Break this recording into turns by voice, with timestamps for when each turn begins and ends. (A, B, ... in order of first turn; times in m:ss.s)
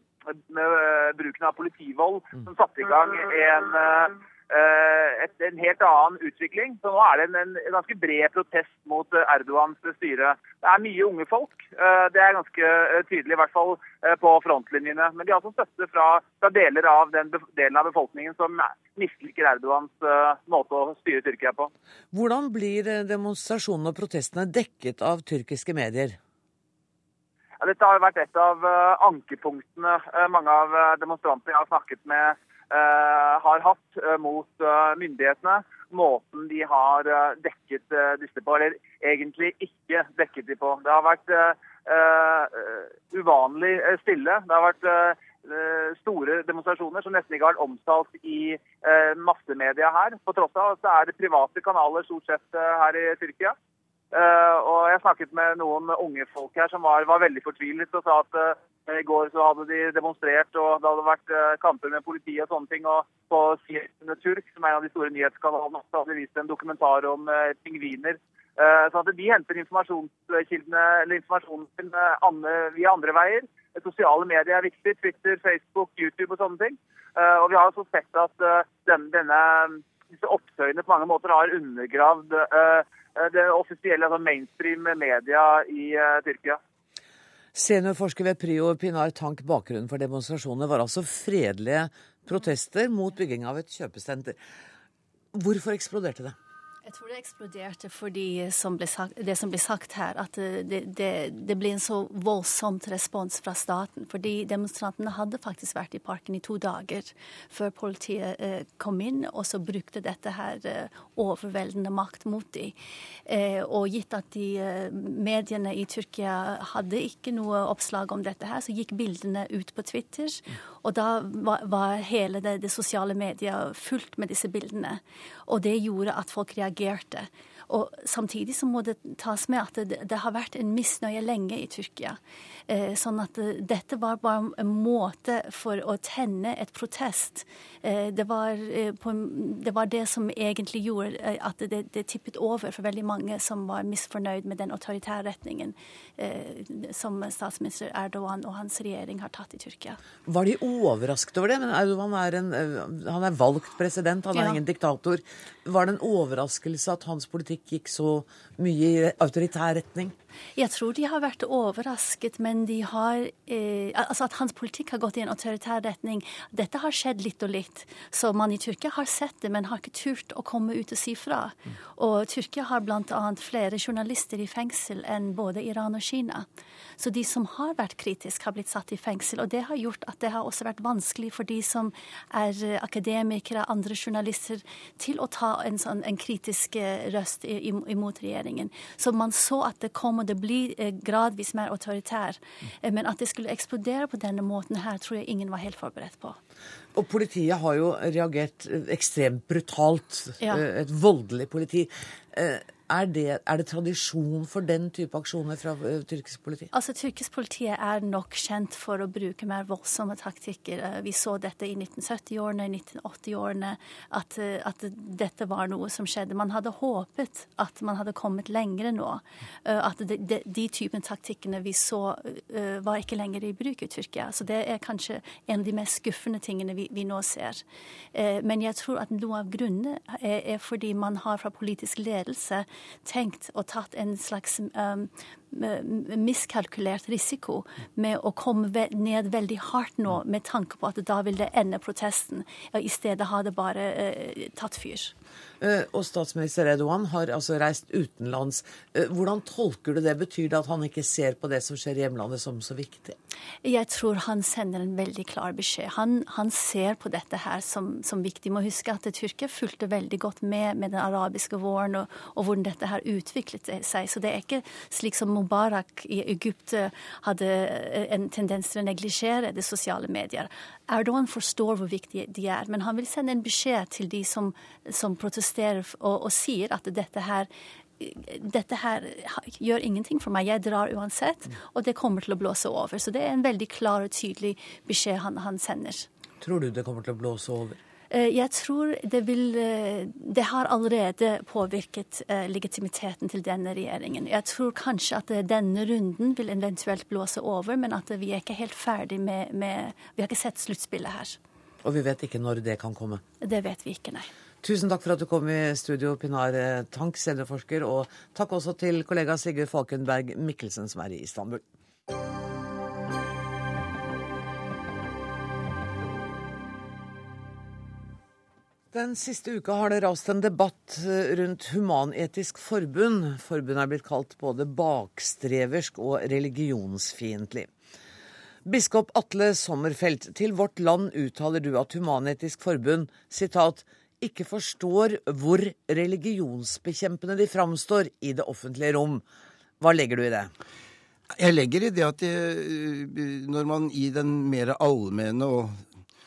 0:00.5-0:21.7 A
0:22.1-0:26.2 B
0:27.6-0:53.6 A
0:54.1-1:26.6 A
1:27.5-1:34.4 B
1:35.3-1:36.4 B
1:36.8-2:30.0 C
2:30.3-2:40.1 B
2:34.3-2:34.6 C
2:40.6-2:56.5 C
2:57.0-3:16.4 C
3:17.0-3:26.7 B
3:26.7-4:05.2 C
4:05.6-4:13.2 B
4:13.6-4:46.1 C
4:46.4-4:47.8 B
4:48.1-5:01.4 C
5:01.8-5:03.2 B
5:03.4-5:04.3 C
5:04.6-5:11.6 B
5:18.9-5:27.7 B
5:28.6-5:39.2 B
5:39.8-5:40.5 B
5:41.4-5:45.8 D